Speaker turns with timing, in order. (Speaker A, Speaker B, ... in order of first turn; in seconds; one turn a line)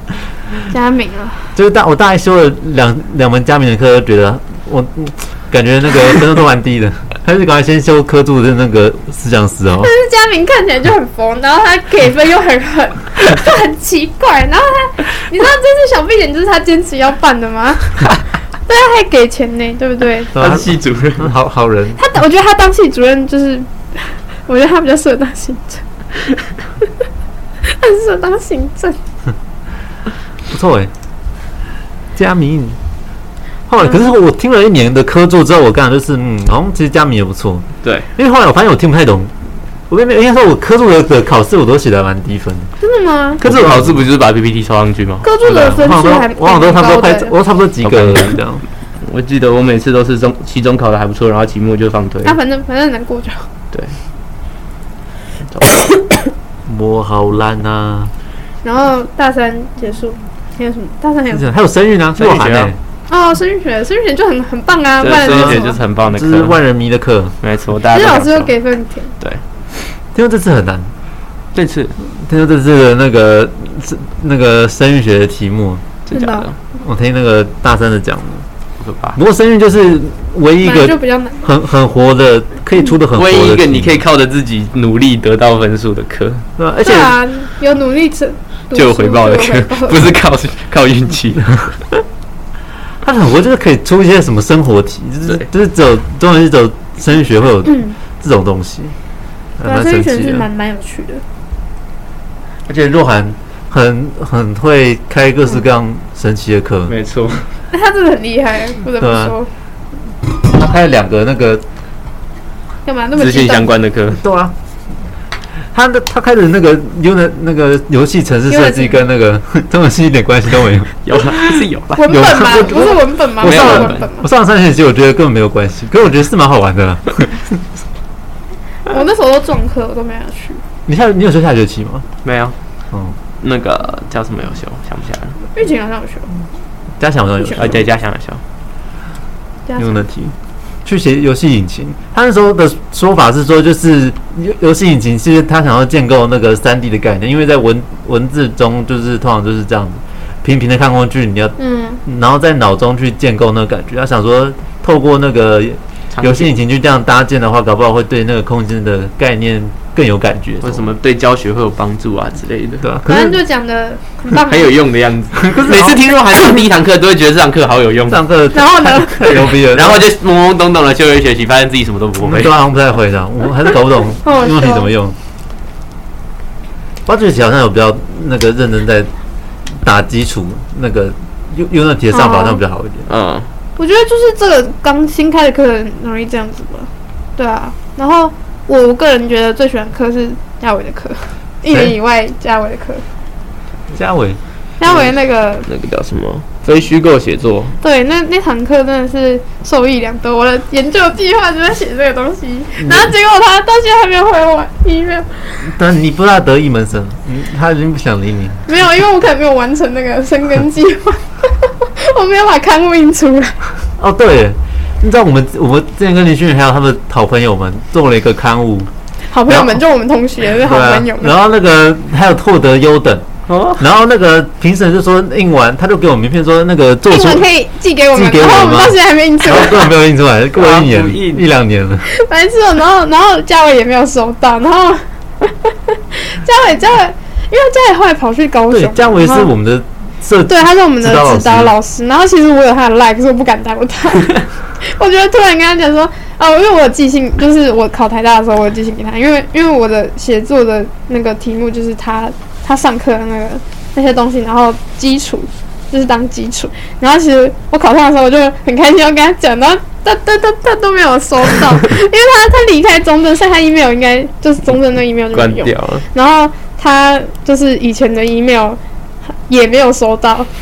Speaker A: 0.7-1.5
Speaker B: 1.6-9.9
Speaker A: 9.8-18.1
Speaker A: 18.7-20.3
Speaker B: 20.4-22.0
Speaker C: 20.4-21.3
Speaker A: 22.0-25.8
Speaker A: 27.7-29.0
Speaker B: 30.5-30.9
Speaker B: 32.1-32.8
Speaker B: 33.7-39.3
Speaker C: 37.8-38.1
Speaker B: 39.9-42.7
Speaker A: 42.8-43.4
Speaker B: 43.4-44.1
Speaker C: 43.4-45.3
Speaker A: 45.2-47.3
Speaker B: 45.5-48.6
Speaker C: 47.8-48.4
Speaker C: 49.0-52.4
Speaker A: 52.2-53.5
Speaker C: 55.5-55.9
Speaker B: 56.6-58.1
Speaker A: 58.6-61.5
Speaker B: 61.3-62.8
Speaker C: 62.2-62.7
Speaker A: 63.1-65.8
Speaker C: 65.0-66.6
Speaker B: 65.3-65.6
Speaker B: 66.1-67.4
Speaker C: 67.4-68.5
Speaker A: 67.9-69.1
Speaker B: 70.2-70.9
Speaker C: 71.5-71.9
Speaker B: 72.0-75.8
Speaker C: 76.1-76.6
Speaker A: 76.1-76.5
Speaker B: 76.8-78.5
Speaker C: 78.8-79.2
Speaker B: 79.1-84.0
Speaker A: 80.6-81.5
Speaker C: 83.1-86.5
Speaker B: 86.6-87.2
Speaker A: 86.8-90.1
Speaker C: 88.7-91.7
Speaker B: 93.0-99.0
Speaker B: 99.6-100.5
Speaker A: 99.6-101.2
Speaker B: 102.7-106.9
Speaker C: 106.9-107.5
Speaker A: 107.7-109.5
Speaker B: 109.0-109.3
Speaker B: 110.2-111.6
Speaker A: 112.9-113.7
Speaker C: 113.2-114.2
Speaker B: 114.2-114.5
Speaker B: 115.7-127.6
Speaker A: 118.5-119.0
Speaker C: 121.0-122.0
Speaker A: 122.0-124.3
Speaker C: 123.4-124.0
Speaker A: 128.9-130.6
Speaker B: 130.9-132.1
Speaker C: 132.2-132.6
Speaker B: 132.9-133.2
Speaker C: 133.4-135.4
Speaker A: 135.6-136.3
Speaker B: 137.0-137.9
Speaker C: 137.5-138.4
Speaker A: 139.7-140.0
Speaker B: 139.8-160.9
Speaker A: 151.6-152.0
Speaker C: 156.2-156.5
Speaker C: 160.6-162.9
Speaker B: 162.8-163.4
Speaker A: 163.1-164.7
Speaker C: 164.3-168.2
Speaker B: 165.4-166.0
Speaker B: 168.1-170.1
Speaker A: 168.5-169.4
Speaker C: 169.2-172.5
Speaker B: 172.2-175.2
Speaker A: 174.2-174.9
Speaker B: 177.1-179.1
Speaker B: 179.8-183.1
Speaker A: 182.1-182.6
Speaker C: 183.1-183.5
Speaker A: 183.8-193.1
Speaker B: 191.7-191.9
Speaker B: 193.9-194.4
Speaker A: 194.8-195.7
Speaker C: 194.8-195.1
Speaker C: 195.7-197.8
Speaker A: 197.8-205.7
Speaker B: 202.8-203.1
Speaker B: 205.6-208.8
Speaker A: 208.7-213.6
Speaker B: 214.0-218.9
Speaker A: 219.3-221.3
Speaker B: 219.5-219.8
Speaker B: 220.6-223.3
Speaker C: 223.5-223.8
Speaker B: 223.8-227.5
Speaker A: 227.1-229.9
Speaker B: 228.1-232.1
Speaker C: 230.6-231.5
Speaker A: 232.0-239.5
Speaker B: 238.7-241.8
Speaker A: 240.5-268.8
Speaker C: 265.3-266.0
Speaker A: 269.5-270.5